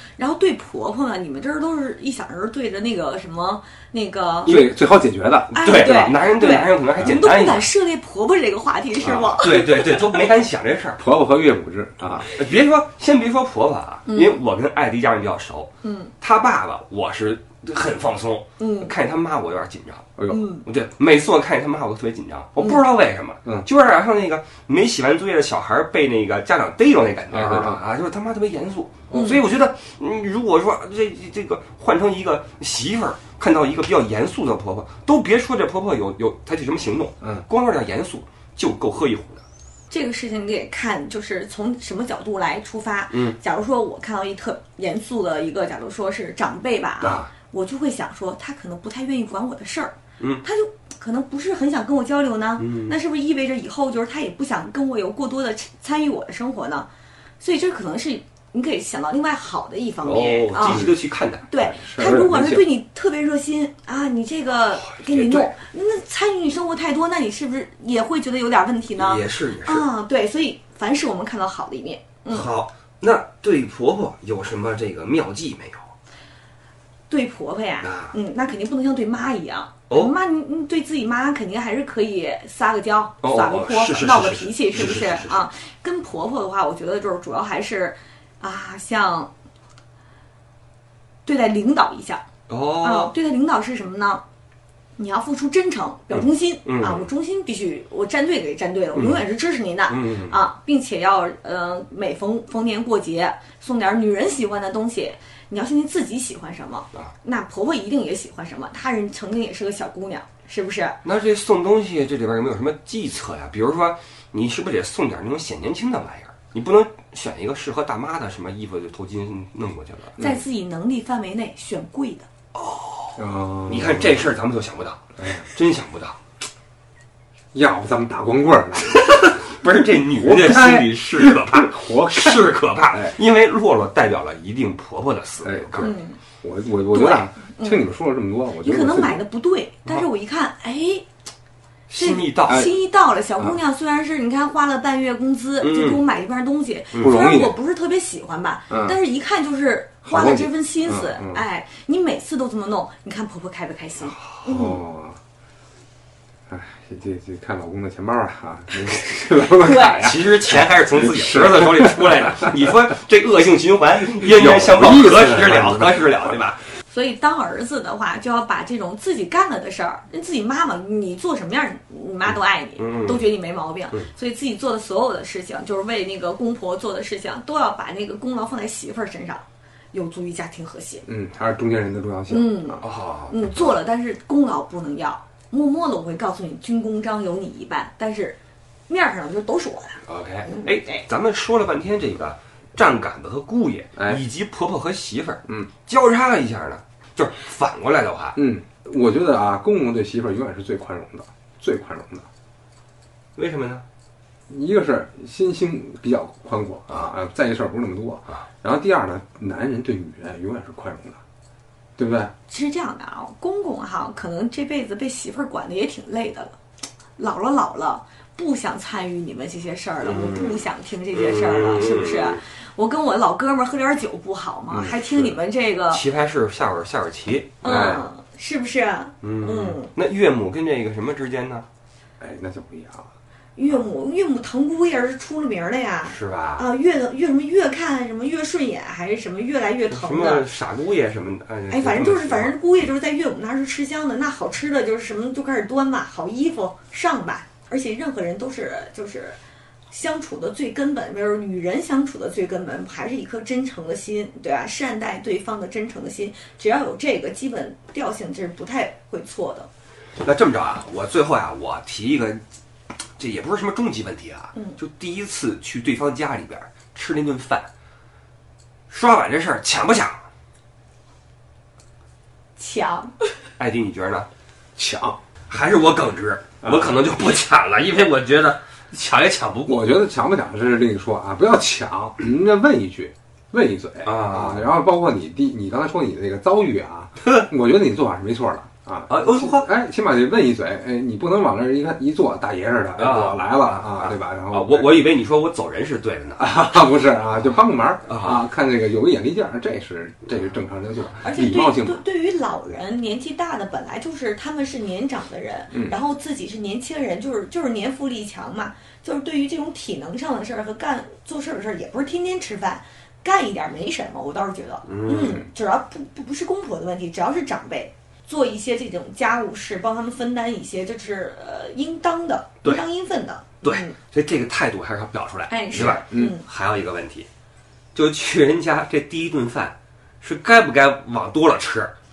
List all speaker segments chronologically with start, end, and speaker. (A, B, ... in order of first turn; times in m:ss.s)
0:00.2-0:04.6 A
0:04.4-0:06.1 B
0:04.4-0:04.7 C
0:05.5-0:07.7 C
0:05.5-0:10.3 A
0:09.0-0:09.4 B
0:09.0-0:11.0 C
0:11.0-0:12.3 B
0:12.3-0:20.1 C
0:14.1-0:14.4 A
0:15.8-0:16.1 A
0:18.6-0:18.9 A
0:20.2-0:20.4 B
0:20.3-0:20.6 A
0:20.6-0:39.4 C
0:27.3-0:27.8 B
0:29.1-0:29.4 A
0:39.9-0:56.9 A
0:43.1-0:43.4 C
0:52.6-0:53.0 C
0:57.4-1:00.9 A
1:00.0-1:01.4 C
1:00.6-1:00.9 B
1:01.5-1:12.5 A
1:01.6-1:02.6 B
1:04.8-1:05.5 C
1:09.0-1:09.8 C
1:12.3-1:15.9 C
1:17.1-1:29.3 A
1:17.8-1:18.1 C
1:23.2-1:25.5 C
1:31.2-1:32.2 A
1:32.5-1:33.1 C
1:32.8-1:34.2 A
1:35.0-1:51.0 A
1:36.1-1:37.1 C
1:39.9-1:40.4 C
1:51.0-2:00.2 C
2:00.2-2:02.3 A
2:02.5-2:06.2 C
2:03.2-2:04.3 B
2:05.2-2:05.4 B
2:07.5-2:09.3 B
2:08.9-2:15.9 C
2:10.2-2:13.1 B
2:15.4-2:15.9 B
2:15.8-2:16.2 A
2:16.4-2:19.2 B
2:16.9-2:17.9 A
2:18.6-2:21.1 A
2:21.9-2:22.7 C
2:22.0-2:34.8 A
2:25.6-2:26.0 C
2:27.0-2:27.5 B
2:28.7-2:29.0 B
2:30.0-2:31.4 B
2:34.5-2:35.2 B
2:36.5-2:42.2 B
2:39.4-2:40.2 A
2:40.0-2:46.6 C
2:44.2-2:46.0 B
2:46.9-3:01.0 A
2:52.8-2:53.2 C
3:01.0-3:02.8 B
3:02.3-3:08.4 A
3:02.8-3:03.4 C
3:08.9-3:11.0 A
3:10.1-3:18.4 C
3:14.0-3:14.2 B
3:18.4-3:22.3 B
3:23.4-3:23.8 C
3:24.5-3:31.2 B
3:32.0-3:32.3 B
3:32.5-3:36.6 A
3:37.2-3:46.0 A
3:40.0-3:40.6 C
3:41.1-3:42.4 C
3:44.7-3:45.4 B
3:45.9-3:47.6 C
3:47.6-3:49.9 A
3:47.6-3:48.0 B
3:49.2-3:51.6 C
3:52.2-3:53.1 B
3:53.6-4:00.5 A
3:56.0-3:56.7 C
3:59.9-4:02.5 C
4:01.7-4:09.4 A
4:09.9-4:19.7 A
4:20.2-4:22.4 C
4:23.2-4:27.7 C
4:28.9-4:30.2 C
4:32.6-4:33.4 A
4:33.6-4:34.3 C
4:34.8-4:35.2 B
4:35.5-4:39.8 C
4:36.6-4:36.9 B
4:39.7-4:55.1 B
4:44.0-4:44.7 C
4:47.2-4:47.5 C
4:49.1-4:49.7 C
4:53.0-4:56.5 C
4:56.4-5:02.0 B
4:58.1-4:58.4 C
5:01.2-5:23.9 A
5:14.8-5:15.4 C
5:23.6-5:27.3 C
5:25.5-5:26.4 A
5:26.1-5:26.4 B
5:27.9-5:31.9 C